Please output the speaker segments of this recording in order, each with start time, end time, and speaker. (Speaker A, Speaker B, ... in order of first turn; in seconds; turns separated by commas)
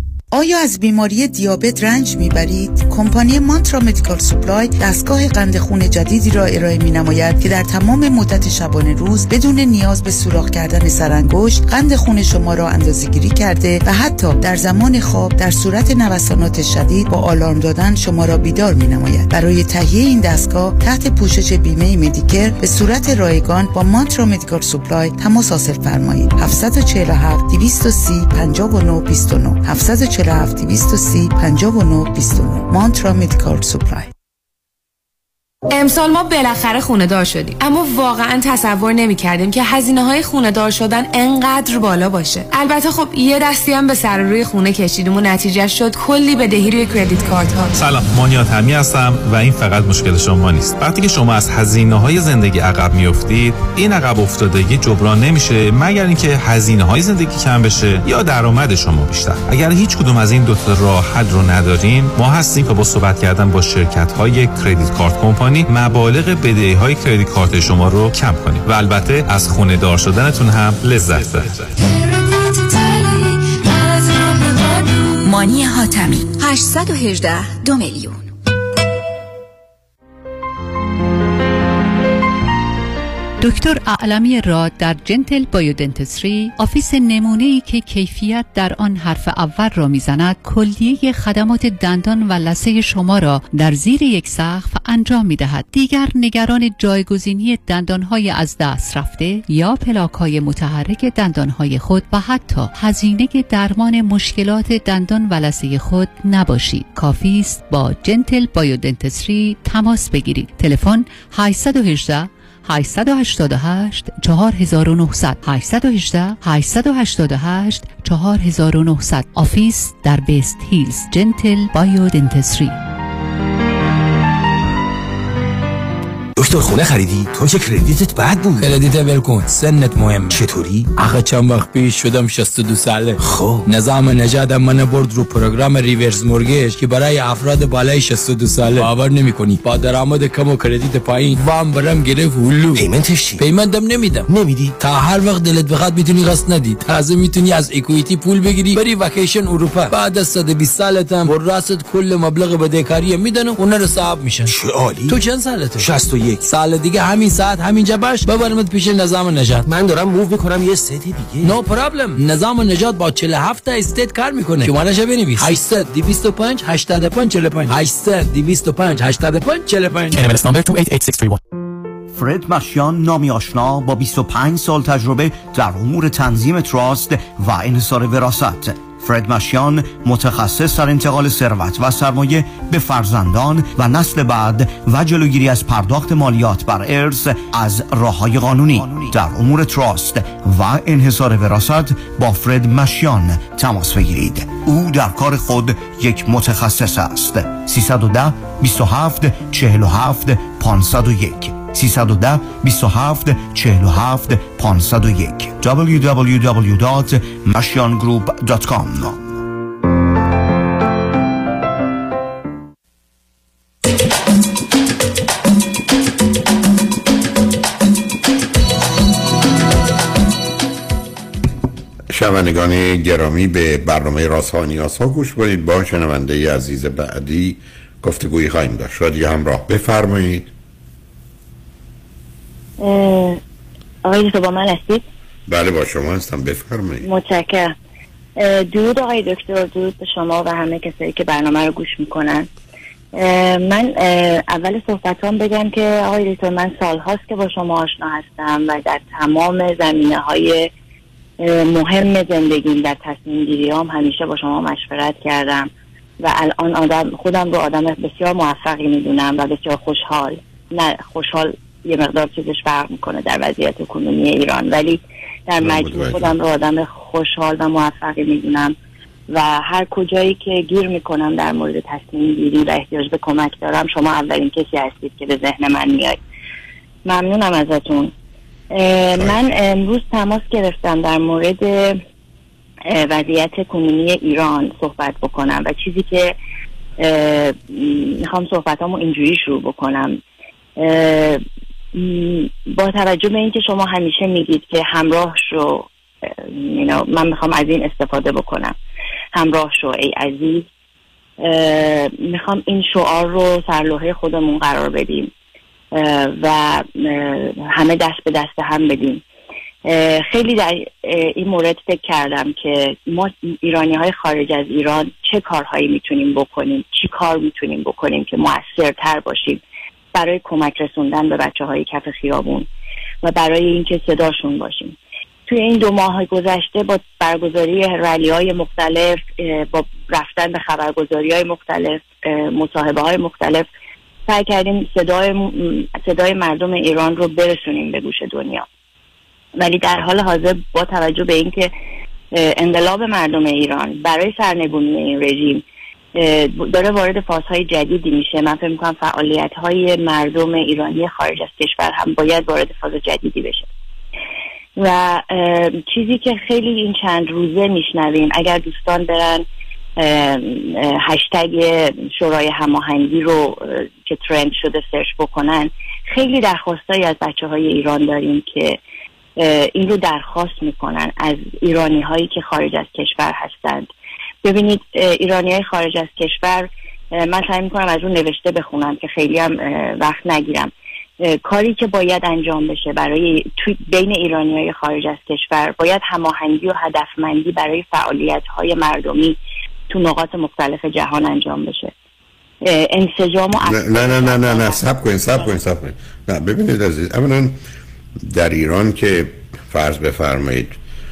Speaker A: 0.3-34.1, Speaker B: 35.7-47.7, Speaker C: 47.8-71.7, Speaker D: 83.4-122.8, Speaker E: 126.3-128.8, Speaker F: 128.6-130.3, Speaker E: 129.6-130.9, Speaker F: 130.9-142.8, Speaker E: 133.2-133.7, Speaker E: 142.7-143.5, Speaker F: 143.4-144.3, Speaker E: 144.3-144.7, Speaker F: 144.8-159.7, Speaker E: 154.4-155.2, Speaker E: 155.8-156.4, Speaker E: 159.6-161.6, Speaker F: 161.4-170.2, Speaker E: 170.1-171.4, Speaker G: 172.1-209.2, Speaker H: 222.1-230.5, Speaker I: 232.8-233.4, Speaker I: 234.0-235.0, Speaker H: 235.5-237.0, Speaker I: 237.0-237.7, Speaker I: 238.4-242.5, Speaker I: 243.2-250.7, Speaker I: 251.4-255.7, Speaker I: 256.2-268.7, Speaker H: 265.6-266.3, Speaker I: 269.3-276.2, Speaker I: 277.1-278.1, Speaker I: 278.7-282.0, Speaker I: 282.9-286.3, Speaker I: 287.0-290.1, Speaker I: 290.8-291.4, Speaker I: 291.9-295.9, Speaker I: 296.4-298.7, Speaker I: 299.3-300.6, Speaker I: 301.4-305.3, Speaker I: 305.9-309.2, Speaker I: 309.9-319.6, Speaker I: 320.1-322.7, Speaker I: 323.2-324.9, Speaker I: 325.5-333.6, Speaker I: 334.3-338.6, Speaker I: 339.6-341.7, Speaker I: 342.4-345.6, Speaker I: 346.2-353.7, Speaker I: 354.8-359.4, Speaker I: 360.0-368.8, Speaker I: 369.4-373.9, Speaker I: 374.4-376.7, Speaker I: 377.2-380.7, Speaker I: 381.3-389.4, Speaker I: 389.9-391.9, Speaker I: 392.6-394.8, Speaker H: 393.6-397.6, Speaker H: 398.2-400.8